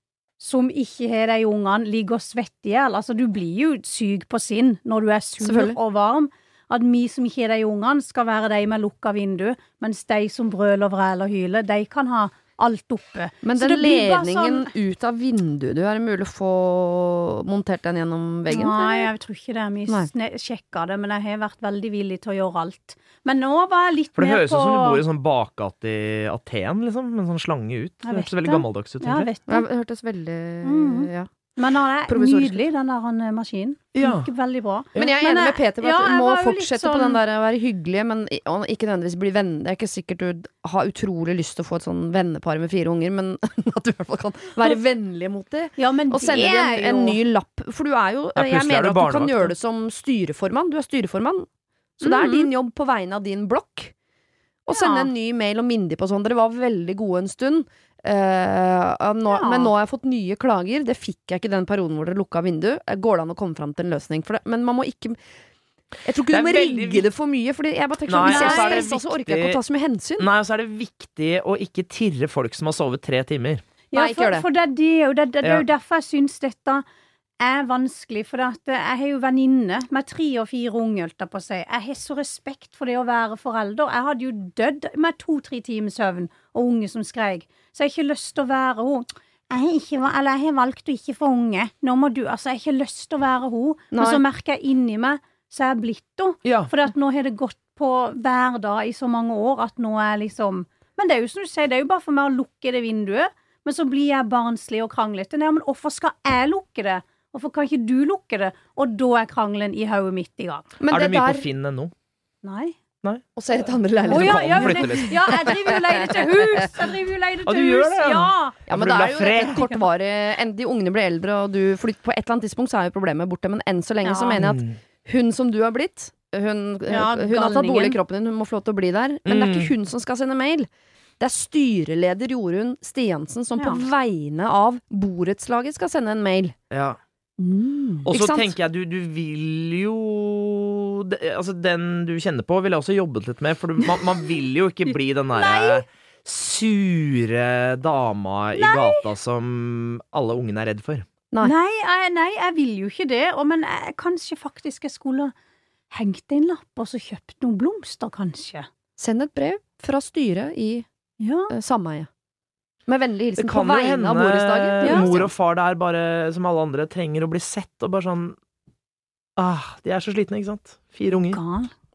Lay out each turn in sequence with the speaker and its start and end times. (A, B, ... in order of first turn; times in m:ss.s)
0:00.4-0:14.7 A
0:05.4-0:05.8 B
0:13.4-0:19.1 B
0:18.5-0:25.0 A
0:24.2-0:29.3 C
0:28.0-0:29.6 A
0:29.5-0:31.3 B
0:30.6-0:37.2 A
0:32.1-0:32.6 B
0:33.9-0:34.3 C
0:35.0-0:51.5 B
0:45.8-0:47.2 A
0:48.3-0:49.5 C
0:52.0-0:53.9 B
0:52.0-0:52.5 A
0:54.6-1:05.2 B
0:54.7-0:55.1 A
0:59.3-0:59.7 A
1:06.0-1:10.3 B
1:06.3-1:07.0 C
1:08.1-1:09.6 C
1:08.2-1:08.8 A
1:10.2-1:13.6 C
1:13.9-1:16.8 A
1:13.9-1:14.4 B
1:17.4-1:50.7 A
1:33.9-1:34.2 B
1:36.4-1:36.7 C
1:50.8-1:51.5 B
1:50.9-1:51.9 C
1:52.4-1:52.8 A
1:53.4-1:56.6 B
1:54.0-1:55.4 C
1:54.1-1:58.6 A
1:57.4-1:59.7 C
1:58.7-2:10.7 B
2:04.0-2:04.4 A
2:04.4-2:04.8 C
2:06.9-2:08.0 A
2:09.2-2:09.7 C
2:11.2-2:16.5 B
2:13.6-2:13.8 A
2:16.7-2:17.0 C
2:17.4-2:18.1 A
2:18.0-2:31.0 C
2:18.1-2:18.5 B
2:25.3-2:25.8 A
2:28.5-2:29.0 A
2:31.4-2:35.3 A
2:35.9-2:38.7 A
2:39.0-2:40.8 B
2:41.2-2:41.5 A
2:41.5-2:42.1 B
2:42.9-2:45.3 B
2:43.4-2:48.4 C
2:44.8-2:45.1 A
2:49.4-2:51.4 C
2:51.2-2:51.7 A